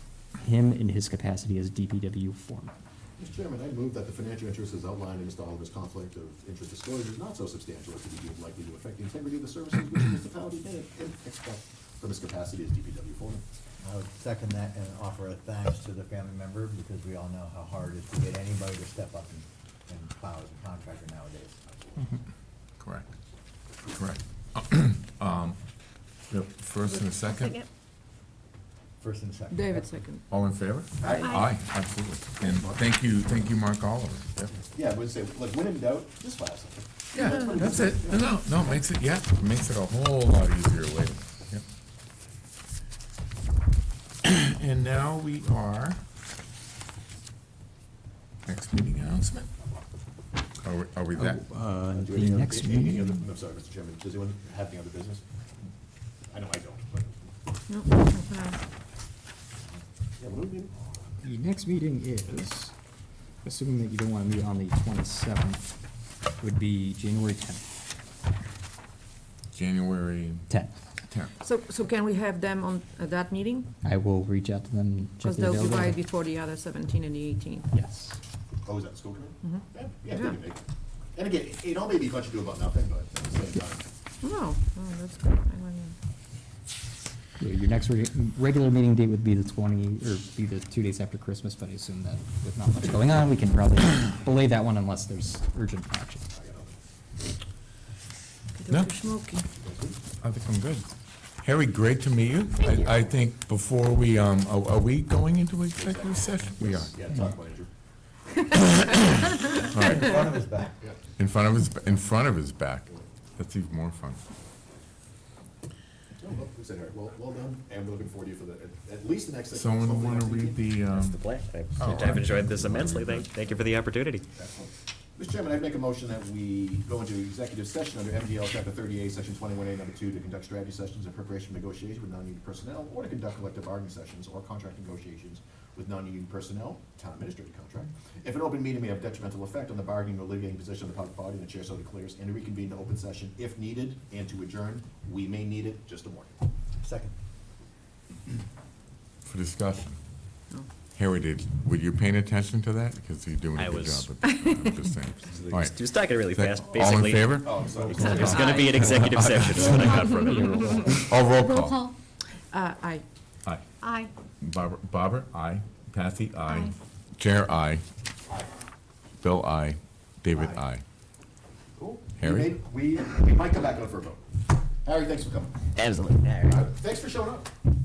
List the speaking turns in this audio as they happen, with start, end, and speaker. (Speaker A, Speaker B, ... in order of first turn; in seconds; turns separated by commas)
Speaker A: 0.4-2.8, Speaker B: 3.2-13.4, Speaker C: 13.8-21.6, Speaker D: 22.8-23.1, Speaker D: 23.9-25.6, Speaker D: 26.3-27.6, Speaker E: 27.3-27.7, Speaker C: 29.0-29.9, Speaker F: 29.5-30.2, Speaker D: 30.3-34.5, Speaker B: 31.0-31.5, Speaker E: 31.2-31.5, Speaker B: 32.4-32.8, Speaker B: 34.6-38.3, Speaker D: 37.1-41.6, Speaker D: 44.2-46.0, Speaker D: 48.5-49.5, Speaker D: 50.6-51.5, Speaker A: 51.2-53.2, Speaker B: 51.9-55.2, Speaker B: 56.3-57.2, Speaker F: 57.7-58.6, Speaker B: 60.2-60.7, Speaker A: 61.2-62.7, Speaker A: 63.4-65.6, Speaker A: 66.4-67.7, Speaker D: 69.5-70.5, Speaker A: 70.5-70.8, Speaker F: 71.4-73.7, Speaker A: 73.8-76.0, Speaker F: 75.2-77.7, Speaker A: 77.7-78.2, Speaker B: 78.7-80.6, Speaker F: 79.4-80.4, Speaker B: 81.2-83.8, Speaker F: 84.2-86.0, Speaker A: 87.4-96.2, Speaker B: 96.3-96.8, Speaker F: 98.5-99.5, Speaker D: 98.7-99.0, Speaker B: 99.5-100.0, Speaker D: 100.2-107.0, Speaker B: 105.8-107.7, Speaker D: 108.8-110.4, Speaker C: 109.7-110.8, Speaker D: 111.2-114.2, Speaker B: 116.2-120.7, Speaker D: 119.5-121.2, Speaker G: 120.9-124.2, Speaker D: 121.8-123.7, Speaker B: 124.4-146.3, Speaker C: 146.8-147.1, Speaker D: 149.2-150.0, Speaker D: 151.0-161.9, Speaker G: 153.6-154.1, Speaker G: 155.3-161.2, Speaker B: 157.3-158.5, Speaker F: 158.0-158.8, Speaker E: 161.3-161.9, Speaker F: 162.5-163.1, Speaker E: 163.8-164.1, Speaker D: 164.4-167.8, Speaker E: 166.5-166.8, Speaker D: 169.2-170.8, Speaker B: 170.3-170.6, Speaker B: 171.8-174.2, Speaker D: 172.2-172.6, Speaker B: 174.8-175.7, Speaker G: 175.8-176.6, Speaker B: 176.4-177.5